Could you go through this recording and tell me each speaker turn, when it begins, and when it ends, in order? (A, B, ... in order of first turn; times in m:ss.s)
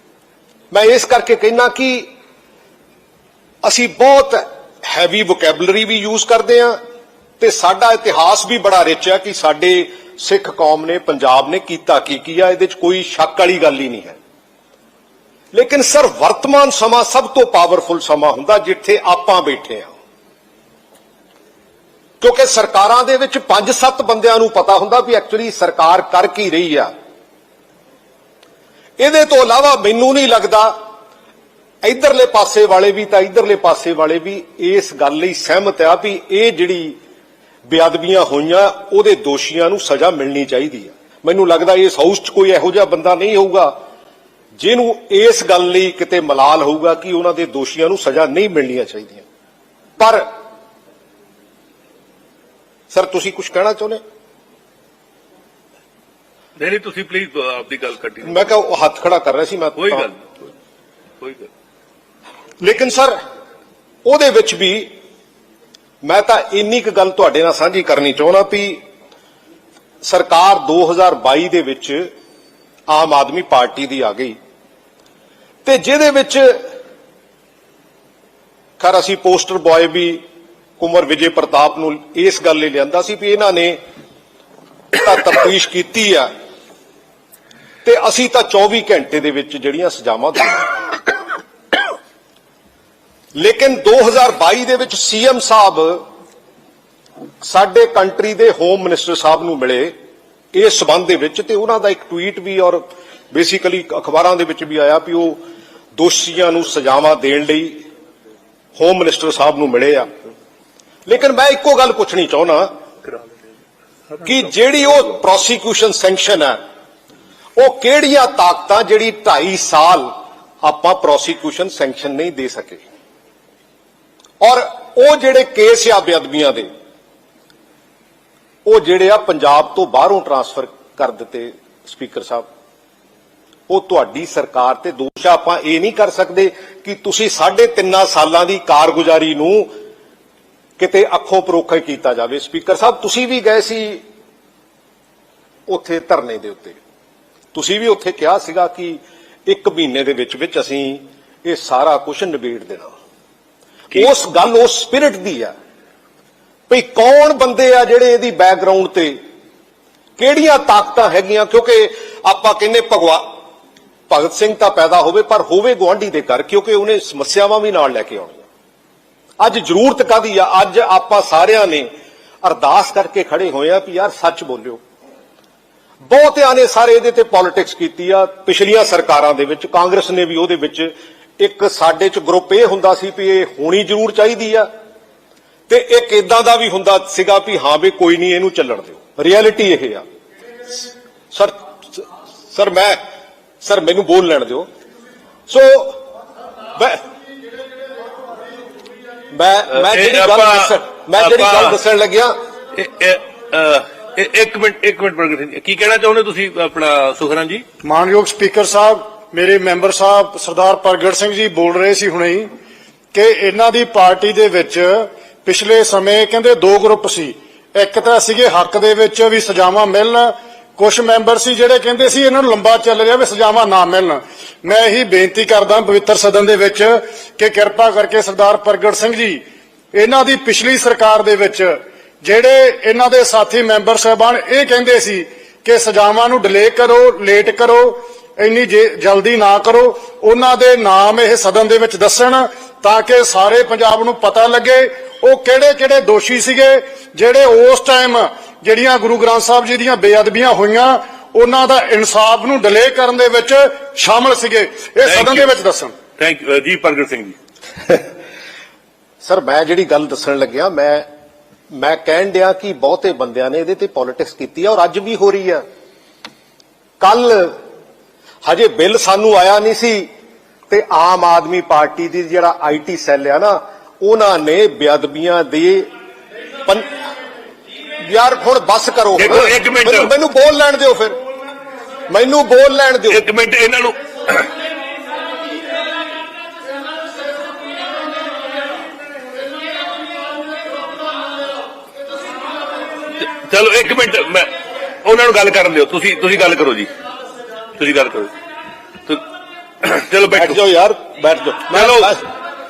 0:00.7-0:02.1 A
0:03.6-0:06.8 A
0:07.4-0:14.2 A
0:15.5-0:19.9 A
0:22.2-0:26.9 A
0:29.0-0:30.7 A
0:31.8-0:37.0 A
0:37.6-0:43.7 A
0:44.6-0:49.2 A
0:50.0-0:50.3 A
0:52.9-0:54.0 A
0:56.6-0:58.5 B
0:58.2-1:00.1 A
0:59.8-1:00.2 B
1:01.2-1:01.5 B
1:02.6-1:03.2 A
1:04.0-1:04.9 A
1:06.0-1:08.8 A
1:10.0-1:12.1 A
1:12.9-1:14.4 A
1:15.6-1:16.6 A
1:18.8-1:20.2 A
1:20.8-1:23.8 A
1:24.9-1:26.3 A
1:27.8-1:30.7 A
1:33.3-1:36.0 A
1:37.4-1:39.9 A
1:40.5-1:45.4 A
1:46.0-1:47.7 A
1:48.8-1:50.1 A
1:51.0-1:52.7 A
1:54.2-1:56.6 A
1:57.6-2:00.1 A
2:00.6-2:02.8 A
2:04.4-2:06.7 A
2:08.6-2:12.4 A
2:13.7-2:19.7 A
2:20.8-2:24.0 A
2:25.7-2:26.8 A
2:27.5-2:32.9 A
2:33.9-2:35.5 A
2:36.7-2:39.2 A
2:40.2-2:43.3 A
2:44.1-2:48.4 A
2:49.4-2:51.9 A
2:52.4-2:54.8 A
2:56.0-3:04.7 A
3:05.7-3:10.0 A
3:10.7-3:13.0 A
3:13.6-3:14.7 A
3:15.5-3:16.0 A
3:16.7-3:17.0 A
3:19.3-3:22.3 A
3:19.8-3:21.8 B
3:22.7-3:27.6 B
3:27.8-3:32.5 C
3:33.1-3:49.4 C
3:49.9-4:15.9 C
4:15.0-4:15.5 B
4:16.2-4:17.4 B
4:19.2-4:21.0 A
4:21.7-4:25.6 A
4:27.0-4:27.5 A
4:28.4-4:30.0 A
4:30.7-4:35.9 A
4:38.0-4:41.2 A
4:39.2-4:40.1 B
4:42.1-4:43.2 A
4:43.1-4:44.5 B
4:53.2-4:54.5 B
4:55.0-4:56.9 B
4:57.7-4:58.3 B
4:59.8-5:00.6 B
5:00.3-5:02.2 A
5:01.7-5:02.2 B